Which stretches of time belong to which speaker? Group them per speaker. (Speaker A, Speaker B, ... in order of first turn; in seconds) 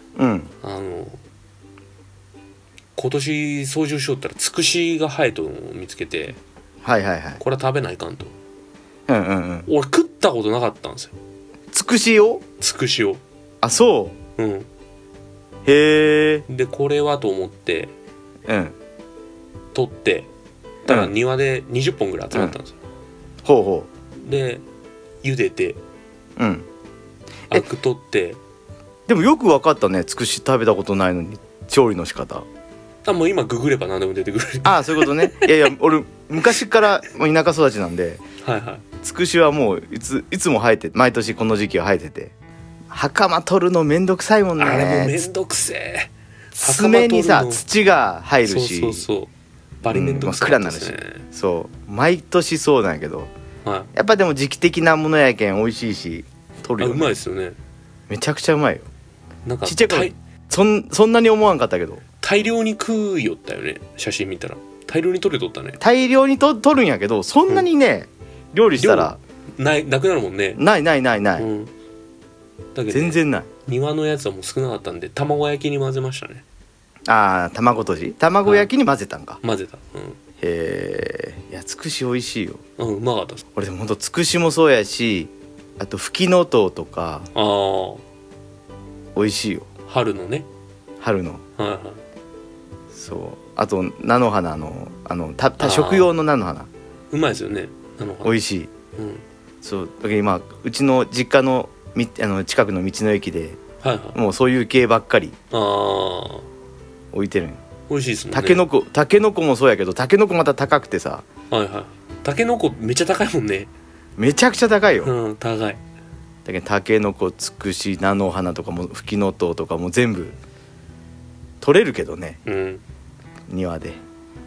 Speaker A: 0.2-0.5, 6.8-7.4, 9.1-9.7, 11.7-12.4, 13.6-14.2, 15.7-16.5, 18.5-18.8, 20.9-21.1, 22.3-22.6, 23.4-23.9, 26.4-26.7, 29.1-32.5, 34.6-38.2, 39.0-42.3, 42.9-45.2, 46.6-49.1, 49.9-53.3, 53.9-57.2, 58.1-58.9, 59.6-62.0, 65.8-69.2, 70.6-71.5, 72.9-73.5, 77.1-79.4, 80.4-82.6, 83.6-87.3, 89.2-89.7, 91.0-91.4, 92.9-96.7, 98.2-98.7, 99.6-103.6, 104.1-105.4, 107.1-107.6, 108.3-111.3, 114.2-115.1, 116.5-120.4, 121.6-122.4, 123.5-124.0
Speaker B: 0.6-1.2, 3.0-6.4, 7.4-8.3, 9.7-11.1, 12.6-13.2, 14.4-14.7, 16.5-17.9, 19.7-20.3, 20.9-22.8, 24.2-24.6, 25.2-25.8, 27.5-28.4, 33.0-35.6, 38.4-38.9, 44.6-47.6, 48.4-49.3, 49.8-51.3, 53.6-53.9, 56.8-57.6, 59.5-60.1, 62.2-65.8, 68.8-70.6, 71.4-71.7, 72.8-76.4, 78.4-78.7, 79.4-80.2, 82.8-83.4, 87.3-88.0, 89.9-90.5, 91.6-92.0, 95.6-96.1, 97.1-98.4, 99.0-99.2, 103.8-104.2, 105.5-106.5, 107.9-108.7, 111.5-113.7, 115.0-115.8, 122.5-122.8